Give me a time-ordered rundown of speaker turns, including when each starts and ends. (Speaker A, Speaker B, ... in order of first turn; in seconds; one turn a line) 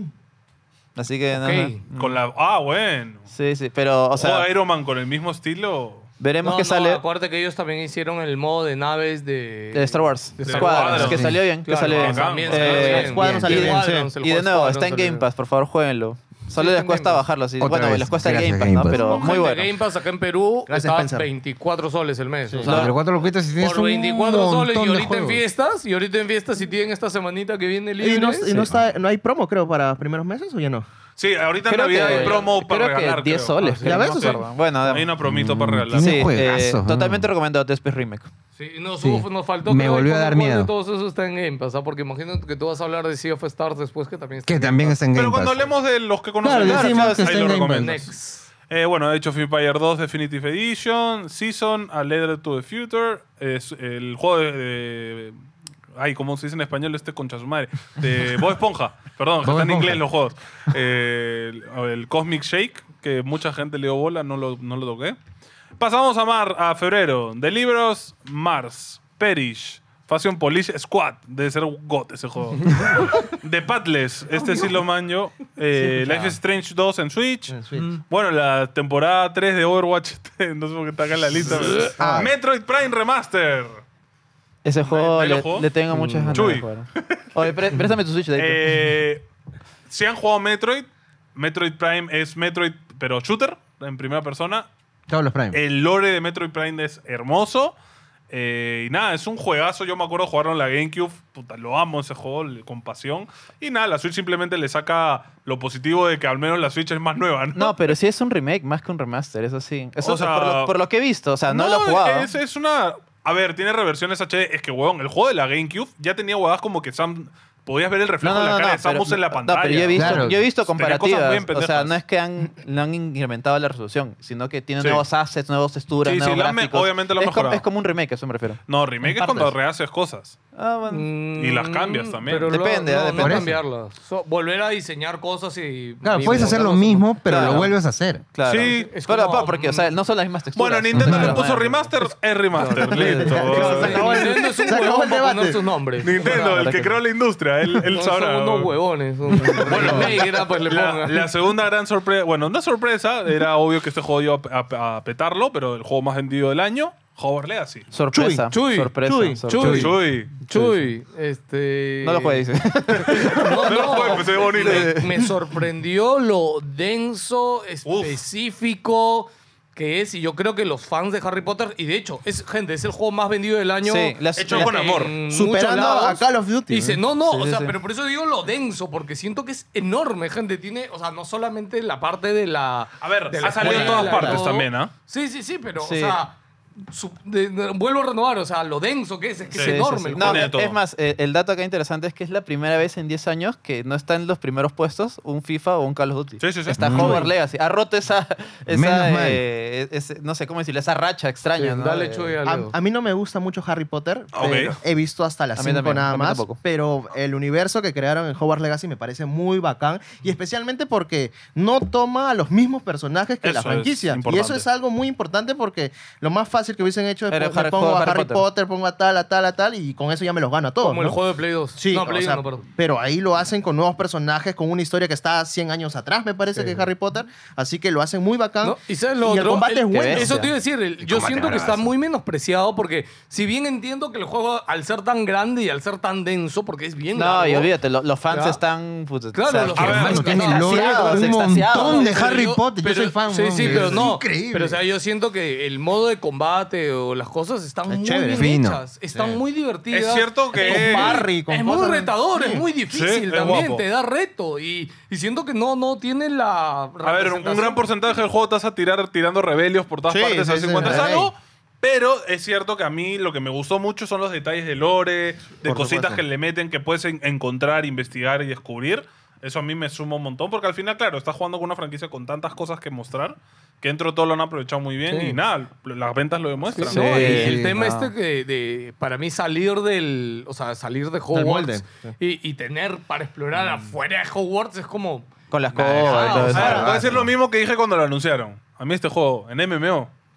Speaker A: 0.9-2.2
Speaker B: 1.3-1.8
Speaker C: 1.9-3.3
Speaker A: 3.3-4.5
Speaker C: 4.1-6.1
Speaker A: 6.2-7.0
Speaker B: 6.4-15.2
Speaker A: 9.7-19.7
Speaker C: 10.4-11.3
Speaker D: 11.0-11.4
Speaker C: 11.9-13.0
Speaker E: 12.7-14.1
Speaker D: 13.2-13.7
Speaker B: 16.5-17.2
Speaker D: 17.6-19.2
Speaker B: 18.9-22.8
Speaker E: 18.9-19.4
Speaker E: 20.7-21.3
Speaker E: 22.4-22.8
Speaker A: 22.6-22.9
Speaker D: 22.6-25.4
Speaker B: 23.6-28.6
Speaker E: 28.0-30.9
Speaker D: 28.5-28.8
Speaker C: 31.2-36.3
Speaker A: 31.7-35.1
Speaker B: 31.9-32.5
Speaker E: 33.8-34.5
Speaker D: 35.2-37.3
Speaker A: 35.9-38.3
Speaker B: 38.6-45.0
Speaker D: 39.0-40.7
Speaker D: 44.5-45.7
Speaker C: 45.1-48.1
Speaker D: 46.4-48.0
Speaker A: 46.5-47.4
Speaker B: 47.8-48.5
Speaker C: 48.7-55.3
Speaker C: 55.9-65.2
Speaker D: 59.4-60.0
Speaker C: 65.8-83.8
Speaker E: 77.5-77.9
Speaker D: 81.8-82.3
Speaker E: 82.0-82.2
Speaker A: 84.6-88.8
Speaker C: 84.8-85.7
Speaker D: 86.0-86.6
Speaker C: 86.3-86.7
Speaker C: 88.3-89.3
Speaker C: 89.9-94.7
Speaker D: 95.1-95.6
Speaker C: 95.5-97.7
Speaker C: 98.3-108.0
Speaker A: 107.5-112.3
Speaker C: 110.0-110.7
Speaker C: 111.5-122.0
Speaker A: 118.2-128.6
Speaker D: 119.9-120.4
Speaker C: 126.0-127.6
Speaker C: 128.7-130.3
Speaker E: 129.1-129.5
Speaker A: 130.5-131.1
Speaker B: 130.9-137.7
Speaker C: 131.3-132.5
Speaker A: 132.5-133.5
Speaker D: 133.2-133.6
Speaker D: 136.0-138.2
Speaker A: 136.3-136.6
Speaker A: 137.2-137.7
Speaker A: 138.3-141.9
Speaker C: 138.4-138.9
Speaker B: 138.7-139.9
Speaker C: 140.5-144.2
Speaker D: 140.9-141.4
Speaker B: 142.5-146.7
Speaker A: 142.7-144.2
Speaker E: 142.9-145.7
Speaker C: 146.0-148.8
Speaker A: 146.1-147.0
Speaker B: 147.9-151.3
Speaker D: 149.4-149.8
Speaker C: 149.4-157.9
Speaker A: 157.9-160.8
Speaker E: 158.1-159.8
Speaker B: 158.5-158.9
Speaker B: 159.5-190.5
Speaker D: 159.5-159.9
Speaker C: 159.7-160.3
Speaker A: 162.0-165.3
Speaker C: 163.0-165.0
Speaker C: 167.8-168.2
Speaker A: 173.8-175.1
Speaker C: 174.4-175.1
Speaker E: 175.3-177.0
Speaker A: 175.7-176.2
Speaker A: 177.2-177.8
Speaker C: 183.0-184.9
Speaker E: 183.5-184.4
Speaker A: 185.8-186.2
Speaker A: 189.5-202.4
Speaker C: 189.5-190.8
Speaker C: 196.4-197.2
Speaker D: 196.7-197.3
Speaker D: 198.7-199.4
Speaker B: 201.6-202.7
Speaker E: 202.4-221.2
Speaker C: 204.3-204.7
Speaker A: 205.6-206.6
Speaker C: 213.4-214.7
Speaker A: 217.3-218.4
Speaker B: 220.8-222.7
Speaker E: 221.8-230.5
Speaker B: 226.5-226.9
Speaker B: 228.6-237.7
Speaker A: 229.9-230.5
Speaker D: 231.0-231.9
Speaker A: 237.1-242.3
Speaker B: 238.3-238.6
Speaker B: 239.3-257.8
Speaker D: 239.7-244.8
Speaker C: 239.7-240.2
Speaker E: 240.7-241.7
Speaker E: 243.6-244.0
Speaker E: 247.9-248.6
Speaker D: 248.3-248.8
Speaker E: 249.1-249.4
Speaker C: 249.9-251.2
Speaker E: 250.6-252.7
Speaker C: 252.9-253.8
Speaker C: 257.0-277.2
Speaker E: 260.1-261.3
Speaker E: 265.6-266.2
Speaker B: 276.7-286.9
Speaker A: 276.8-278.1
Speaker D: 276.9-277.9
Speaker E: 281.3-282.1
Speaker A: 285.5-287.0
Speaker E: 286.1-287.0
Speaker D: 286.3-287.3
Speaker C: 286.4-290.1